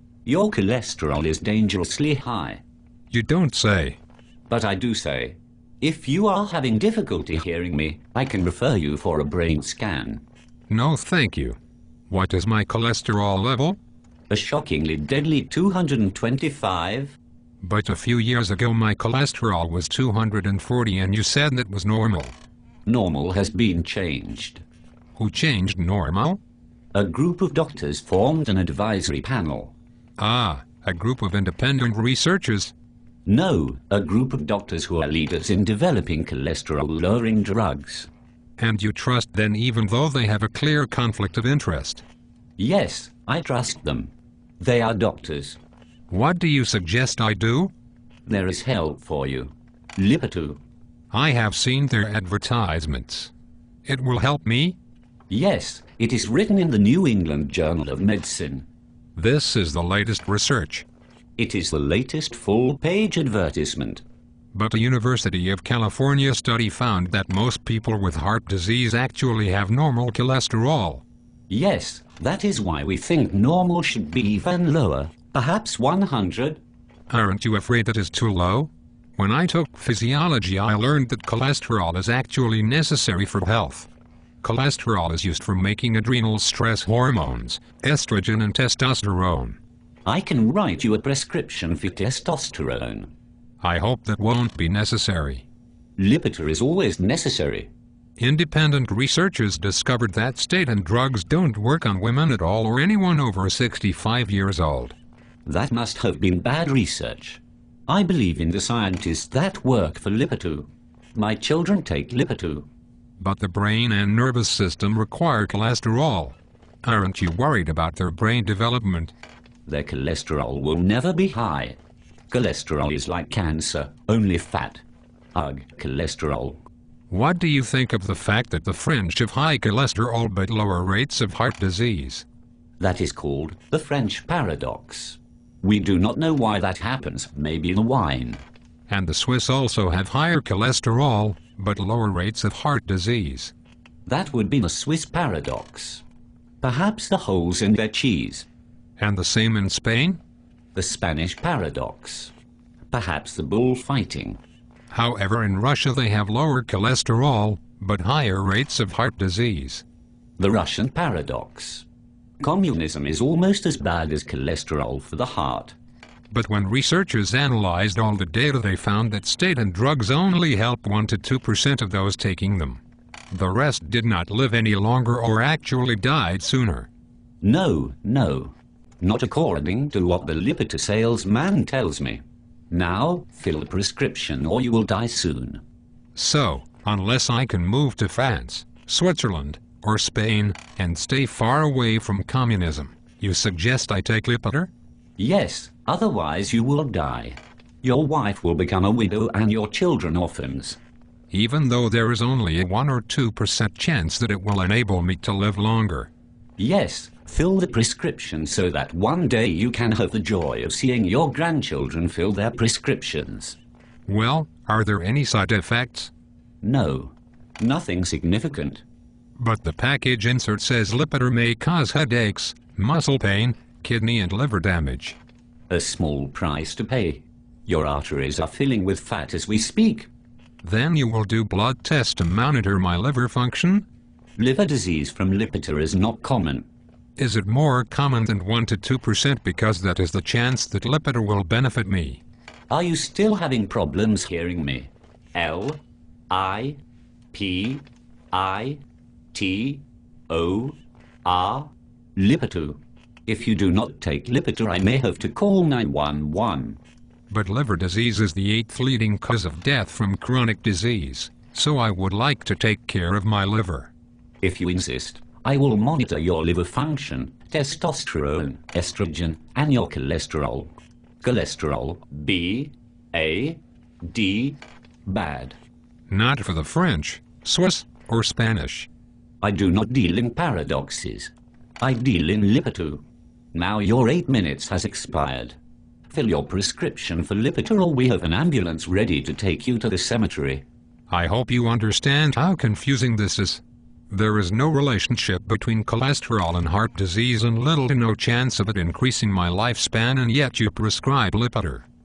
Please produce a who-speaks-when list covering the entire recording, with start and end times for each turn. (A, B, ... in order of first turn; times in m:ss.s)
0:00.2-0:02.6 A
0:03.1-0:04.0 B
0:04.5-0:10.2 A
0:10.7-0:11.6 B
0:12.1-0:13.8 B
0:14.3-0:17.2 A
0:17.6-0:22.3 B
0:22.8-0:24.6 A
0:25.2-0:26.4 B
0:26.9-0:29.7 A
0:30.2-0:32.7 B
0:33.2-0:38.1 A
0:38.6-0:42.0 B
0:42.6-0:45.6 A
0:46.1-0:47.7 B
0:48.2-0:50.6 A
0:51.1-0:53.3 B
0:53.8-0:54.8 B
0:55.3-0:58.6 A
0:59.2-1:00.8 B
1:01.4-1:04.0 A
1:04.5-1:11.0 B
1:11.5-1:16.6 A
1:17.1-1:23.9 B
1:24.4-1:29.6 B
1:30.0-1:33.1 A
1:33.6-1:35.4 B
1:36.0-1:37.7 A
1:38.2-1:45.0 B
1:45.4-1:52.7 A
1:53.2-1:59.1 B
1:59.7-2:01.8 A
2:02.3-2:04.8 A
2:05.3-2:06.6 A
2:07.1-2:12.2 B
2:12.8-2:18.4 A
2:18.9-2:23.5 B
2:24.0-2:26.0 A
2:26.6-2:28.5 A
2:29.0-2:30.2 B
2:30.7-2:32.3 A
2:32.9-2:34.4 A
2:34.9-2:39.8 B
2:40.4-2:41.8 A
2:42.4-2:45.8 A
2:46.3-2:56.9 B
2:57.4-3:05.6 A
3:06.1-3:14.7 B
3:15.2-3:20.8 A
3:21.3-3:26.1 B
3:26.6-3:33.6 A
3:34.1-3:36.1 B
3:36.6-3:38.8 A
3:39.4-3:45.2 B
3:45.7-3:50.1 A
3:50.6-3:53.8 B
3:54.4-3:56.6 A
3:57.2-4:02.2 B
4:02.7-4:06.8 A
4:07.3-4:08.8 A
4:09.3-4:16.8 A
4:17.3-4:23.9 B
4:24.4-4:35.6 A
4:36.1-4:38.9 B
4:39.4-4:45.6 A
4:46.1-4:50.6 A
4:51.1-5:01.8 B